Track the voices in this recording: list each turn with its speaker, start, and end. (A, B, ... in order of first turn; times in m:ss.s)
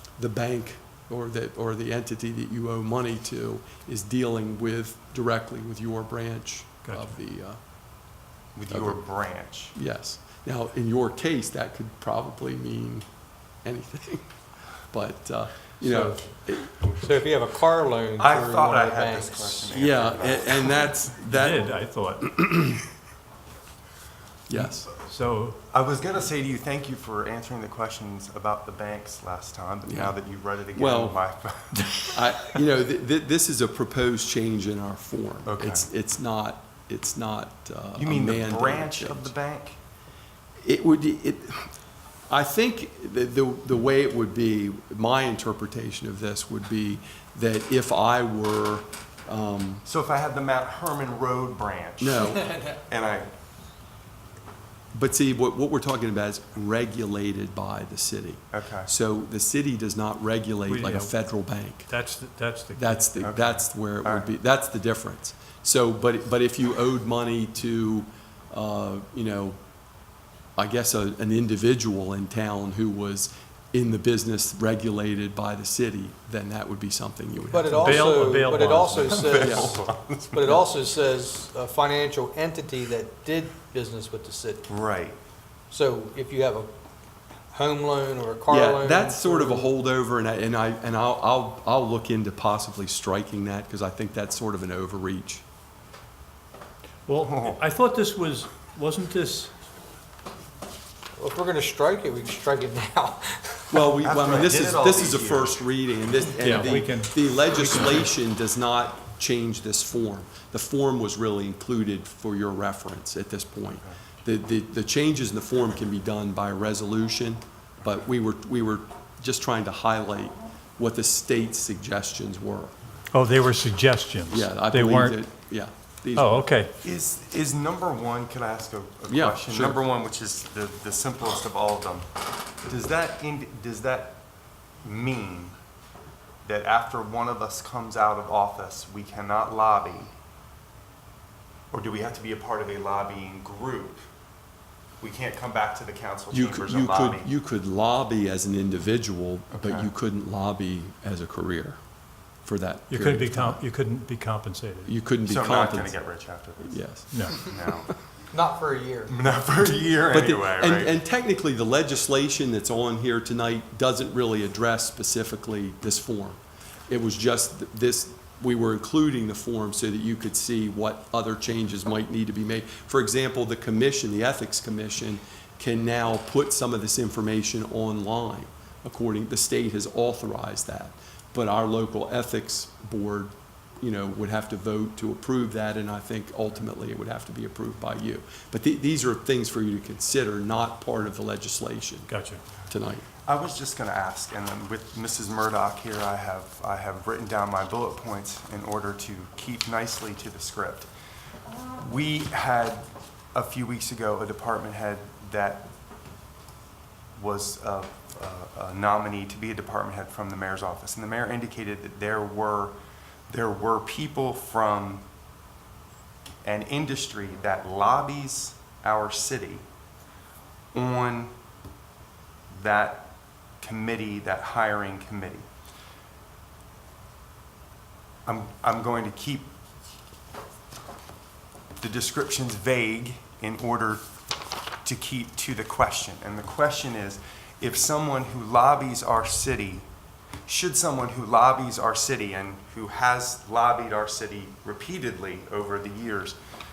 0:00.2-0:07.6 A
0:06.8-0:07.1 B
0:08.5-0:09.7 C
0:08.7-0:09.0 A
0:09.7-0:13.0 A
0:13.6-0:14.3 A
0:14.9-0:16.9 A
0:16.9-0:19.7 D
0:18.2-0:20.9 C
0:19.7-0:21.7 A
0:21.2-0:22.4 B
0:22.4-0:22.8 A
0:24.5-0:24.9 A
0:24.6-0:25.6 B
0:25.7-0:31.8 C
0:29.9-0:30.1 A
0:30.7-0:31.2 A
0:32.1-0:39.3 A
0:35.4-0:35.9 C
0:38.0-0:39.8 C
0:40.6-0:41.7 A
0:42.3-0:49.8 A
0:49.8-0:53.3 C
0:52.0-0:52.5 A
0:54.9-1:01.9 A
0:58.5-0:58.9 C
1:00.7-1:01.2 B
1:01.9-1:03.4 B
1:02.7-1:09.6 A
1:03.2-1:04.3 C
1:10.6-1:18.5 A
1:17.5-1:19.8 D
1:17.7-1:19.5 B
1:19.1-1:20.6 C
1:19.4-1:19.8 A
1:20.3-1:24.7 D
1:24.7-1:25.2 C
1:25.7-1:26.7 D
1:27.5-1:29.7 D
1:28.5-1:35.4 A
1:37.0-1:39.5 B
1:37.2-1:37.6 C
1:41.2-1:43.9 D
1:43.7-2:02.7 A
1:44.0-1:45.6 C
1:46.4-1:48.1 B
2:03.1-2:05.2 B
2:04.3-2:06.4 A
2:06.1-2:06.7 B
2:06.8-2:12.0 C
2:09.1-2:09.8 A
2:12.6-2:14.2 C
2:14.8-2:15.6 C
2:16.4-2:20.1 C
2:21.7-2:24.0 C
2:25.0-2:27.3 C
2:26.3-2:31.8 A
2:29.5-2:29.9 C
2:32.4-2:33.6 A
2:32.9-2:34.9 B
2:34.8-2:35.9 A
2:35.2-2:36.8 C
2:36.6-2:37.6 A
2:37.1-2:37.5 B
2:37.3-2:37.9 C
2:38.3-2:39.1 D
2:39.1-2:40.9 C
2:40.1-3:12.1 A
3:12.1-3:12.4 B
3:12.7-3:13.0 A
3:13.2-3:20.9 C
3:21.8-3:25.7 C
3:27.1-3:32.8 C
3:33.3-3:35.0 C
3:36.4-3:39.6 C
3:40.7-3:41.3 C
3:42.5-3:45.5 C
3:48.2-3:49.5 C
3:51.8-3:54.0 C
3:54.8-3:59.9 C
4:00.4-4:06.4 C